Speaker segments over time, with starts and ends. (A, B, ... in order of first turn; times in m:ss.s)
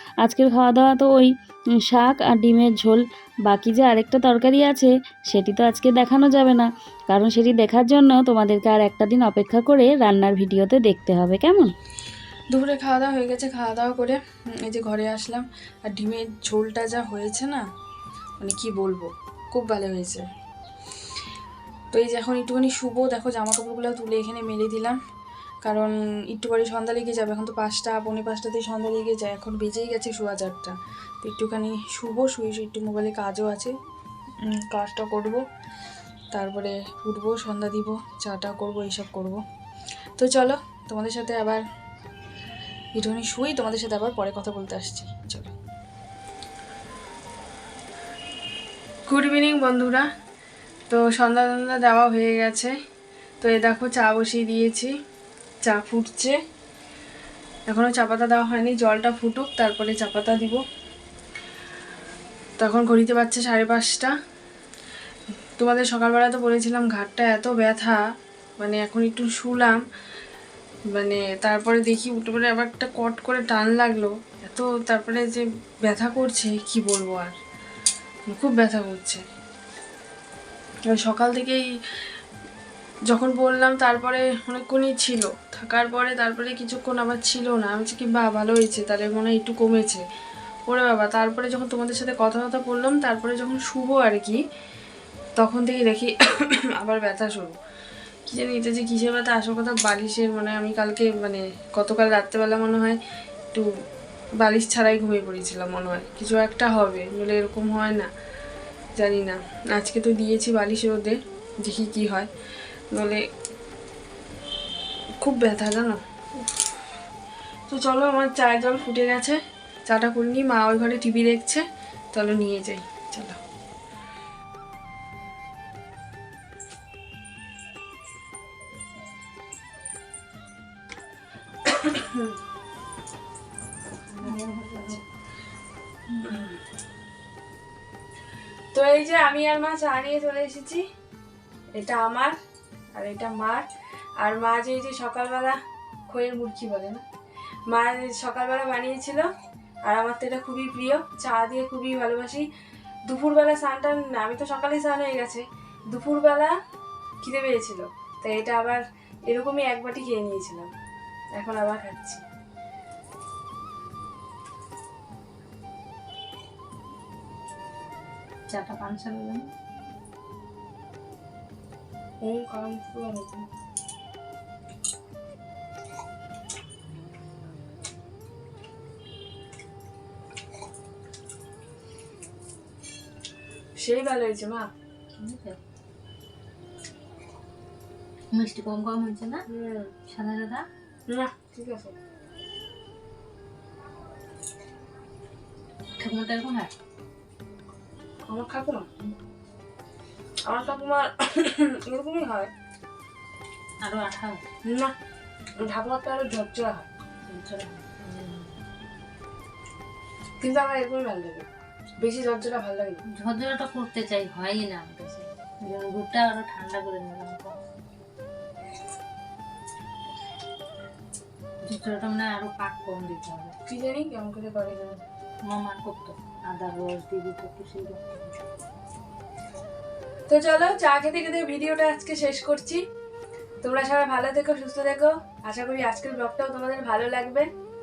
0:00.2-0:11.7 A
0:12.5-0:17.6 B
0:18.4-0:20.2 B
0:21.9-0:25.0 B
0:25.6-0:33.7 B
0:34.4-0:35.4 B
0:36.3-0:39.4 B
0:40.2-0:41.6 B
0:43.0-0:45.5 B
0:49.1-0:50.1 B
0:50.9-0:52.7 B
0:53.4-0:54.9 B
0:55.6-0:56.4 B
0:57.7-1:00.6 B
1:02.6-1:04.1 B
1:05.6-1:08.0 B
1:08.6-1:09.8 B
1:10.9-1:17.4 B
1:18.3-1:19.2 B
1:20.9-1:21.6 B
1:23.1-1:30.0 B
1:30.7-1:34.4 B
1:35.4-1:37.6 B
1:38.3-1:43.0 B
1:44.4-1:48.1 B
1:49.0-1:52.3 B
1:52.9-1:53.2 B
1:55.2-1:56.5 B
1:57.7-2:03.4 B
2:11.6-2:12.3 B
2:14.2-2:15.0 C
2:16.2-2:16.6 B
2:18.7-2:20.8 B
2:21.7-2:22.4 B
2:23.0-2:25.6 B
2:26.1-2:27.0 B
2:27.7-2:29.3 B
2:29.8-2:32.5 B
2:33.1-2:36.5 B
2:37.2-2:40.7 B
2:41.3-2:42.2 B
2:48.5-2:49.5 C
2:52.2-2:53.5 B
3:03.8-3:04.7 B
3:05.2-3:05.6 C
3:08.3-3:09.4 C
3:09.5-3:09.9 B
3:10.1-3:10.7 C
3:11.1-3:12.0 B
3:16.0-3:16.7 C
3:18.2-3:18.9 B
3:20.5-3:22.5 B
3:23.8-3:24.4 C
3:24.6-3:24.9 B
3:25.6-3:26.9 B
3:27.2-3:28.5 C
3:30.4-3:31.5 B
3:32.0-3:33.0 B
3:33.1-3:37.6 C
3:41.6-3:43.5 C
3:43.7-3:45.0 B
3:45.4-3:48.4 C
3:50.3-3:52.8 B
3:53.6-3:57.5 B